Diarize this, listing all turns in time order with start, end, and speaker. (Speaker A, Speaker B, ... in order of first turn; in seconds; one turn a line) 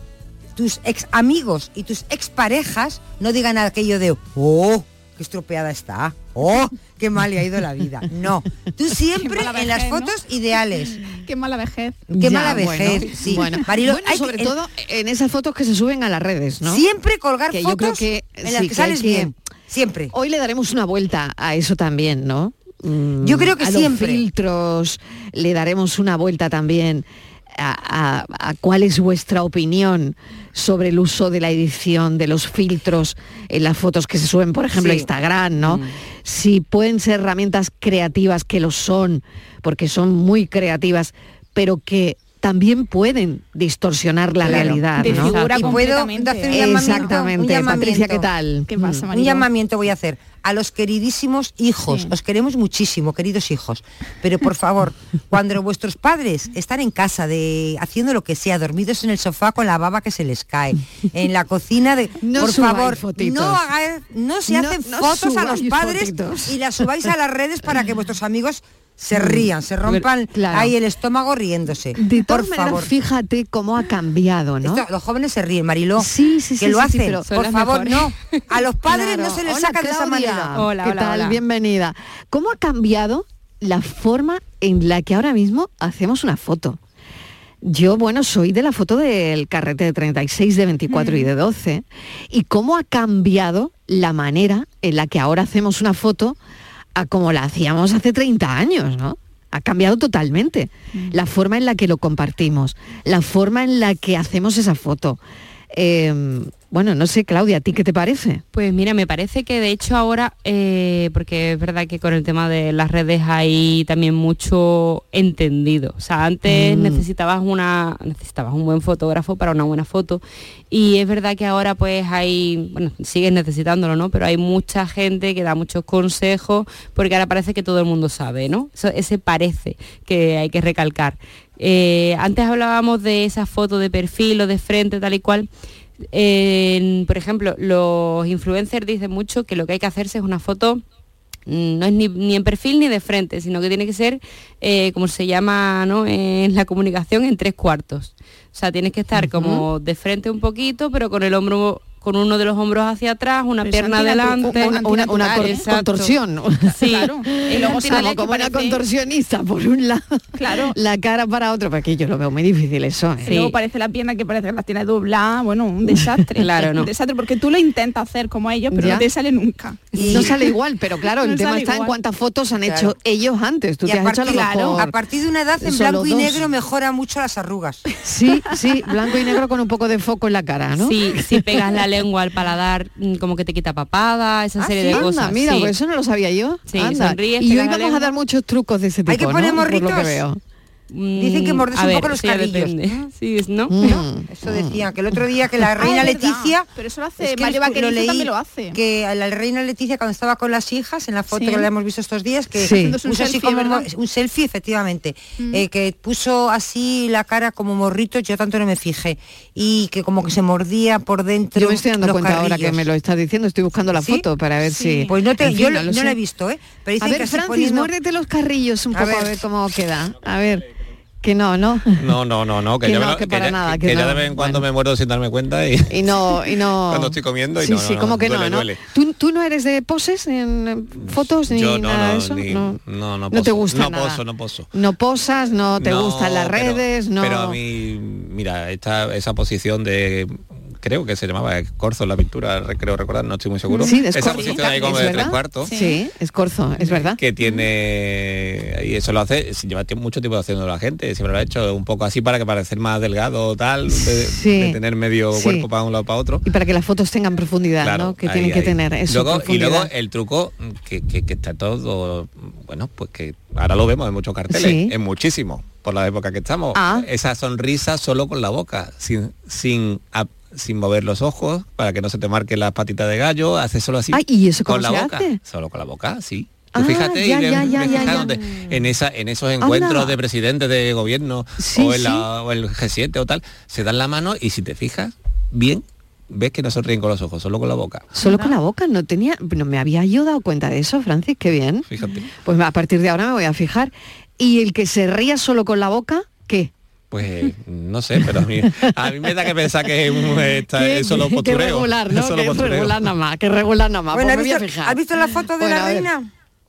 Speaker A: 0.6-11.0
Speaker B: 9.2-10.2
Speaker B: 10.9-12.1
Speaker C: 12.1-16.8
Speaker A: 12.1-14.5
Speaker A: 16.6-20.1
Speaker C: 17.5-19.3
Speaker C: 20.1-45.4
Speaker A: 23.2-24.2
Speaker A: 34.8-35.1
Speaker D: 44.5-45.9
Speaker A: 44.5-48.3
Speaker B: 44.5-47.0
Speaker C: 46.5-48.7
Speaker B: 48.7-49.5
Speaker A: 48.8-72.9
Speaker B: 51.9-52.1
Speaker C: 62.2-63.6
Speaker C: 64.5-66.6
Speaker C: 69.1-70.7
Speaker C: 72.0-74.8
Speaker A: 74.6-80.5
Speaker C: 76.0-77.3
Speaker D: 77.3-78.4
Speaker C: 78.9-86.8
Speaker D: 80.5-81.4
Speaker C: 87.6-96.4
Speaker B: 90.9-91.3
Speaker C: 97.0-105.2
Speaker C: 105.7-108.4
Speaker D: 108.5-135.5
Speaker C: 116.5-117.0
Speaker D: 136.0-140.8
Speaker D: 141.5-156.2
Speaker C: 149.2-149.7
Speaker C: 153.6-163.4
Speaker B: 154.3-155.6
Speaker D: 156.8-158.2
Speaker B: 156.8-158.8
Speaker B: 160.4-160.8
Speaker D: 163.2-163.6
Speaker B: 163.2-170.5
Speaker C: 165.9-166.2
Speaker D: 166.4-166.9
Speaker C: 168.7-169.1
Speaker A: 170.0-170.3
Speaker C: 170.0-174.9
Speaker B: 171.1-171.9
Speaker A: 172.7-172.9
Speaker A: 173.8-177.8
Speaker C: 175.6-176.4
Speaker C: 178.0-181.8
Speaker D: 180.8-185.7
Speaker A: 184.6-185.1
Speaker C: 184.9-190.4
Speaker D: 186.7-188.2
Speaker A: 189.1-190.2
Speaker D: 190.9-194.0
Speaker A: 191.2-193.1
Speaker C: 193.7-194.8
Speaker A: 193.8-196.7
Speaker B: 195.8-198.8
Speaker A: 197.2-212.8
Speaker B: 201.3-201.7
Speaker C: 202.6-203.0
Speaker B: 202.6-203.9
Speaker B: 205.4-205.7
Speaker C: 211.6-216.2
Speaker B: 214.6-215.1
Speaker A: 215.1-217.9
Speaker C: 217.0-220.7
Speaker A: 218.9-219.3
Speaker C: 221.2-222.2
Speaker E: 222.0-228.8
Speaker C: 222.8-224.7
Speaker C: 225.9-237.6
Speaker E: 230.9-234.7
Speaker E: 235.8-245.7
Speaker B: 243.7-246.0
Speaker C: 243.8-247.2
Speaker B: 246.8-247.7
Speaker E: 247.2-256.5
Speaker C: 253.9-254.8
Speaker C: 255.3-255.7
Speaker C: 256.4-259.9
Speaker E: 257.8-288.1
Speaker C: 264.5-265.0
Speaker C: 266.7-267.1
Speaker C: 274.1-275.4
Speaker C: 276.7-278.4
Speaker C: 279.6-280.2
Speaker C: 281.6-282.3
Speaker B: 288.2-288.6
Speaker C: 288.2-291.9
Speaker E: 291.9-292.3
Speaker C: 292.4-296.7
Speaker E: 297.1-303.1
Speaker C: 298.6-299.5
Speaker C: 300.0-306.1
Speaker A: 304.1-306.3